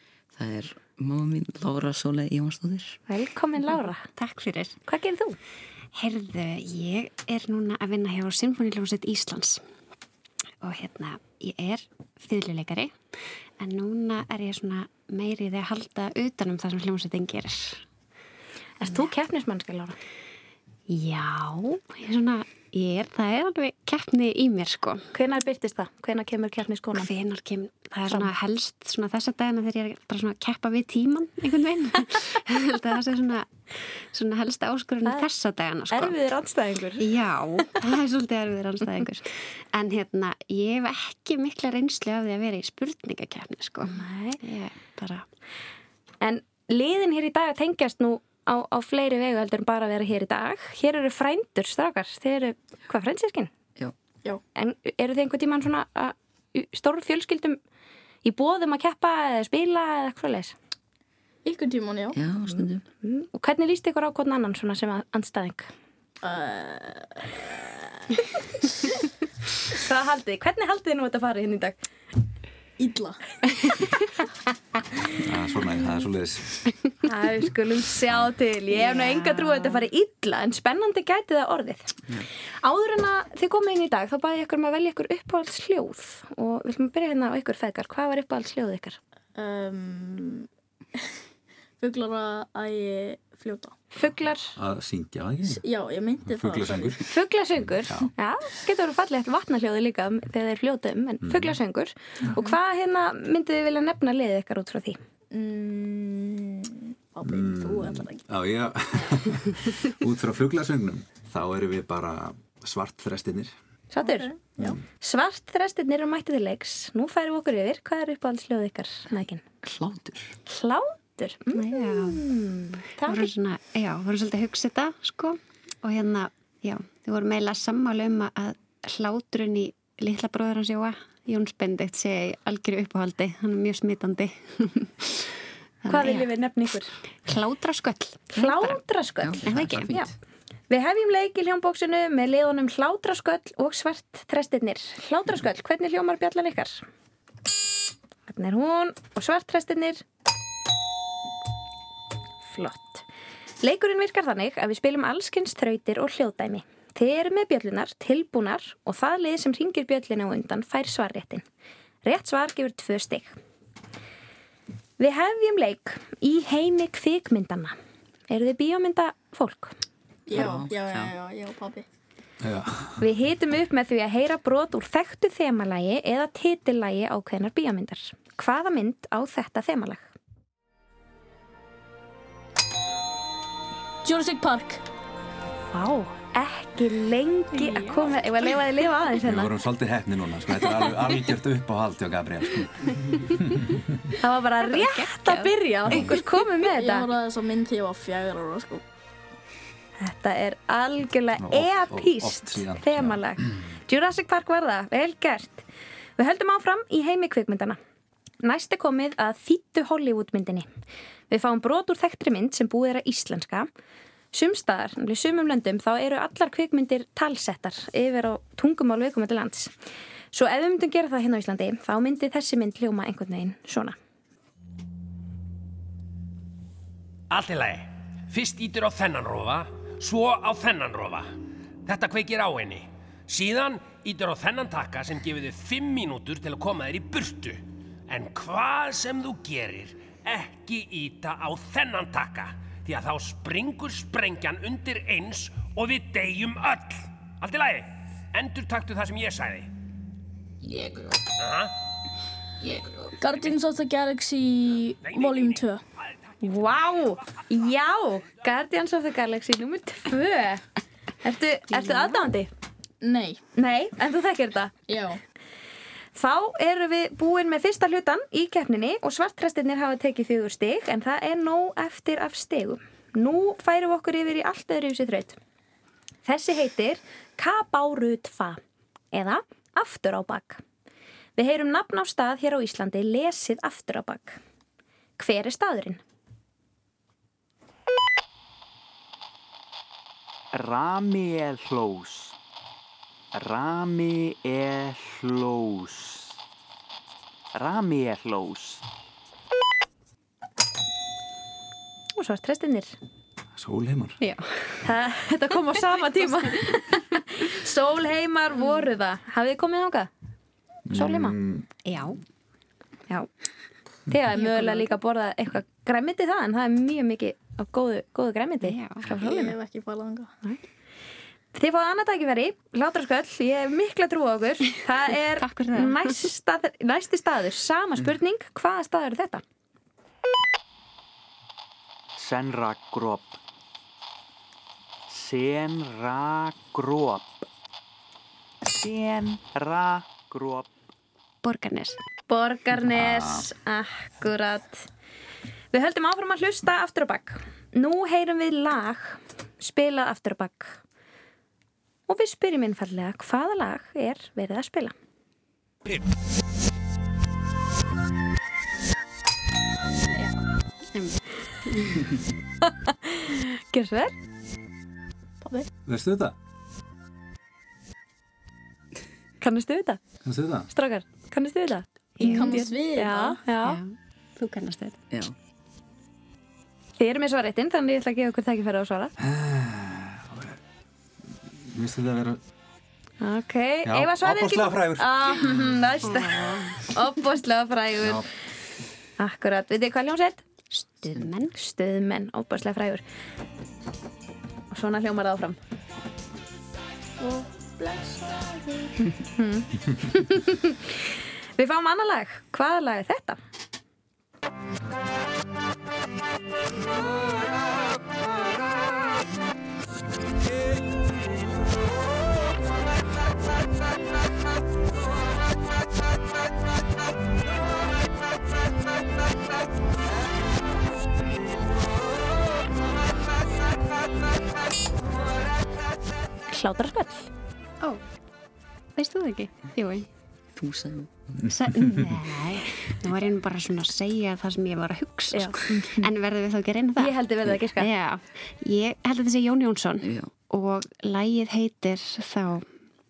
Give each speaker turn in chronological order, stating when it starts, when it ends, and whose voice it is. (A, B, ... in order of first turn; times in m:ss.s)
0:00.3-0:03.0 A
0:03.1-0:04.1 B
0:04.2-0:04.8 C
0:04.9-0:05.4 B
0:06.0-0:09.6 C
0:10.6-0:12.9 C
0:13.6-0:17.8 C
0:18.8-0:20.0 B
0:20.9-0:25.1 C
0:25.1-0:27.1 B
0:27.0-0:33.5 C
0:34.1-0:36.2 C
0:35.9-0:37.1 B
0:37.0-0:45.2 C
0:43.9-0:44.4 B
0:46.2-0:53.5 B
0:54.6-0:57.6 B
0:58.2-1:00.6 B
1:01.4-1:02.2 D
1:02.1-1:02.8 A
1:03.0-1:05.7 B
1:06.2-1:08.6 D
1:09.7-1:11.8 B
1:12.8-1:13.8 D
1:15.2-1:16.9 E
1:17.0-1:22.0 B
1:22.6-1:29.0 B
1:29.4-1:31.1 D
1:31.8-1:33.8 D
1:34.0-1:34.6 B
1:34.6-1:35.6 E
1:35.4-1:37.0 D
1:36.3-1:37.0 E
1:37.1-1:45.0 B
1:37.8-1:38.1 E
1:41.2-1:41.6 E
1:45.3-1:48.2 D
1:47.2-1:53.5 E
1:53.9-1:54.3 B
1:54.0-1:54.8 D
1:55.0-1:59.4 B
1:59.6-2:00.3 A
2:00.5-2:03.3 B
2:01.5-2:02.3 C
2:03.0-2:15.3 C
2:15.8-2:16.3 C
2:15.9-2:16.9 B
2:17.2-2:18.8 C
2:18.4-2:20.1 B
2:19.2-2:20.1 A
2:19.4-2:19.9 C
2:20.7-2:26.8 B
2:28.3-2:30.0 B
2:32.4-2:33.0 B
2:33.6-2:41.4 B
2:42.0-2:43.3 B
2:45.0-2:47.7 B
2:48.3-2:49.7 B
2:50.3-2:51.9 D
2:50.3-2:51.1 A
2:52.4-2:53.0 E
2:53.0-3:00.1 B
3:04.0-3:04.8 D
3:05.7-3:09.5 B
3:07.7-3:08.1 D
3:09.2-3:14.1 E
3:14.2-3:17.1 B
3:14.7-3:15.6 C
3:16.6-3:18.8 D
3:20.0-3:25.6 B
3:21.4-3:23.2 E
3:26.2-3:27.8 B
3:28.4-3:30.7 B
3:31.3-3:33.7 B
3:34.3-3:39.7 B
3:40.3-3:44.0 B
3:47.3-3:51.3 F
3:51.8-4:09.7 F
4:11.4-4:11.8 F
4:13.2-4:15.8 D
4:15.0-4:15.6 F
4:16.4-4:20.6 B
4:21.2-4:22.5 B
4:23.0-4:23.4 D
4:23.6-4:24.8 B
4:24.9-4:25.2 D
4:26.2-4:35.4 B
4:36.2-4:38.6 B
4:39.1-4:40.6 B
4:41.4-4:44.4 B
4:45.2-4:46.0 B
4:50.5-4:52.4 G
4:53.3-4:56.3 G
4:57.5-4:58.8 G
5:02.2-5:03.0 B
5:03.5-5:04.2 E
5:04.2-5:04.5 C
5:04.8-5:10.1 B
5:10.9-5:11.7 E
5:10.9-5:11.4 B
5:11.8-5:12.2 C
5:14.1-5:18.8 B
5:14.6-5:14.9 D
5:18.6-5:19.3 C
5:19.1-5:20.3 D
5:21.5-5:29.4 B
5:25.4-5:26.3 C
5:32.2-5:33.4 G
5:35.1-5:37.3 G
5:38.8-5:40.7 G
5:41.4-5:42.0 C
5:42.3-5:44.9 B
5:42.9-5:43.4 E
5:45.7-5:50.8 B
5:52.1-5:55.0 B
6:00.9-6:02.1 C
6:02.9-6:04.1 B
6:05.4-6:05.7 D
6:05.9-6:06.4 E
6:09.4-6:10.0 B
6:10.2-6:10.7 E
6:10.7-6:13.8 B
6:12.2-6:12.7 C
6:12.2-6:13.4 D
6:13.6-6:15.0 C
6:17.0-6:19.1 B
6:19.2-6:20.6 E
6:21.6-6:22.4 E
6:23.2-6:28.2 B
6:23.8-6:25.1 E
6:26.1-6:26.6 C
6:29.2-6:30.4 B
6:30.7-6:31.5 C
6:31.5-6:33.0 B
6:34.7-6:35.6 B
6:37.2-6:38.8 D
6:39.2-6:43.4 B
7:06.5-7:07.3 B
7:09.0-7:10.1 C
7:10.6-7:11.1 A
7:11.5-7:22.6 C
7:15.3-7:16.0 B
7:17.0-7:17.9 B
7:20.0-7:20.3 A